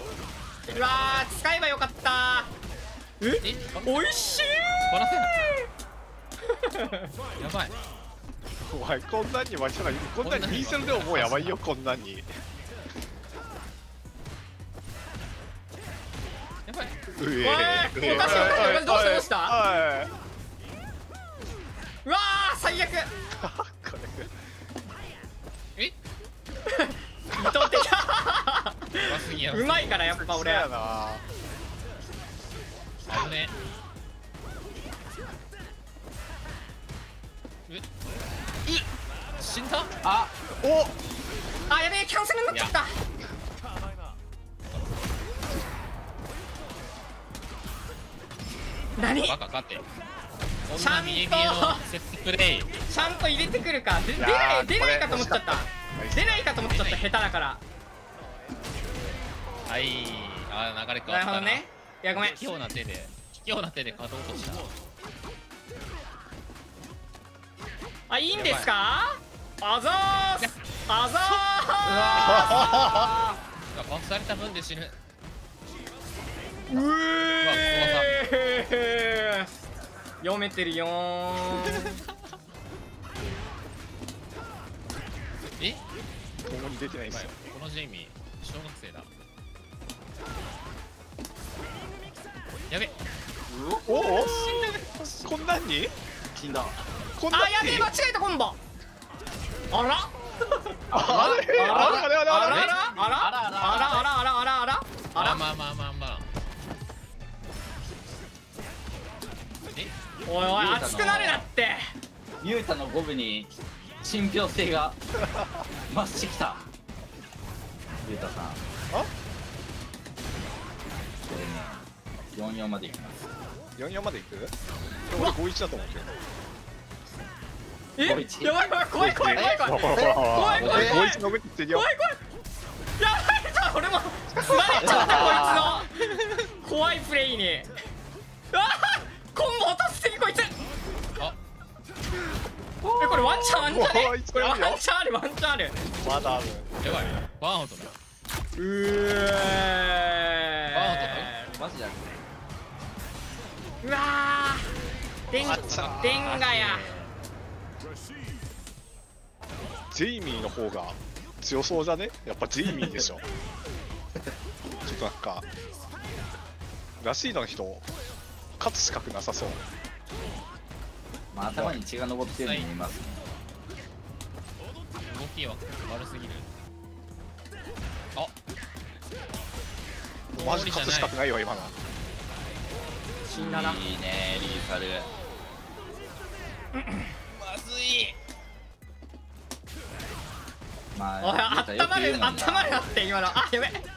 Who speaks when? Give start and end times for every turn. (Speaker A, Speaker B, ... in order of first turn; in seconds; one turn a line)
Speaker A: 0.7-2.5
Speaker A: 3.2-4.9
Speaker B: 3.4-5.5
Speaker A: 6.6-7.1
Speaker B: 7.4-7.8
Speaker C: 8.6-12.3
Speaker B: 10.2-11.6
Speaker B: 16.6-16.9
Speaker C: 17.1-20.1
Speaker A: 17.4-19.6
Speaker B: 18.0-18.8
Speaker A: 22.0-23.1
Speaker C: 23.4-24.3
Speaker A: 26.6-30.7
Speaker C: 27.3-27.8
Speaker B: 29.0-29.9
Speaker C: 30.0-31.2
Speaker B: 33.1-33.5
Speaker B: 39.4-39.9
Speaker D: 40.0-40.3
Speaker C: 40.6-40.9
Speaker A: 41.7-43.0
Speaker B: 42.5-42.8
Speaker A: 49.0-49.4
Speaker B: 49.2-49.9
Speaker B: 50.7-52.8
Speaker A: 50.7-51.9
Speaker A: 52.9-57.6
Speaker C: 54.1-56.4
Speaker B: 56.6-57.1
Speaker B: 59.6-64.7
Speaker A: 61.0-62.4
Speaker A: 68.1-73.3
Speaker B: 68.3-68.7
Speaker D: 71.8-72.7
Speaker C: 72.2-73.1
Speaker B: 72.2-72.7
Speaker B: 73.7-75.0
Speaker A: 76.7-79.5
Speaker B: 76.7-78.1
Speaker A: 80.2-82.0
Speaker C: 86.4-87.3
Speaker B: 87.1-89.1
Speaker B: 92.7-92.9
Speaker D: 93.5-94.0
Speaker C: 93.8-94.6
Speaker B: 94.0-95.3
Speaker C: 95.2-95.9
Speaker D: 96.3-96.8
Speaker C: 97.2-97.9
Speaker A: 97.3-98.6
Speaker A: 99.7-100.1
Speaker D: 100.9-102.1
Speaker C: 100.9-102.8
Speaker B: 101.0-102.9
Speaker A: 101.5-105.4
Speaker D: 103.0-104.1
Speaker B: 105.1-106.3
Speaker A: 110.2-111.9
Speaker D: 110.3-111.5
Speaker D: 112.4-115.0
Speaker D: 115.9-116.7
Speaker D: 118.0-118.6
Speaker D: 121.2-123.4
Speaker C: 123.8-124.5
Speaker C: 125.1-126.1
Speaker A: 128.0-132.2
Speaker D: 128.0-128.7
Speaker C: 128.9-131.9
Speaker D: 129.3-131.1
Speaker A: 133.0-135.9
Speaker C: 134.3-135.8
Speaker D: 134.8-135.6
Speaker A: 136.5-137.7
Speaker A: 138.5-140.6
Speaker D: 142.8-143.4
Speaker A: 143.0-145.8
Speaker C: 143.4-144.8
Speaker C: 146.0-146.7
Speaker B: 146.8-147.9
Speaker A: 148.6-151.5
Speaker B: 150.7-151.4
Speaker D: 151.4-152.2
Speaker A: 153.8-154.8
Speaker A: 155.3-156.9
Speaker C: 155.4-156.4
Speaker B: 155.4-157.1
Speaker C: 159.9-163.2
Speaker C: 164.8-165.4
Speaker C: 167.0-167.9
Speaker C: 168.6-169.6
Speaker D: 171.3-173.3
Speaker C: 171.5-171.8
Speaker B: 172.2-172.7
Speaker B: 175.0-176.5
Speaker C: 180.3-181.8
Speaker B: 180.4-181.2
Speaker A: 183.2-183.8
Speaker D: 183.3-185.1
Speaker A: 186.8-187.1
Speaker B: 187.3-188.2
Speaker D: 190.9-192.9
Speaker A: 191.2-193.9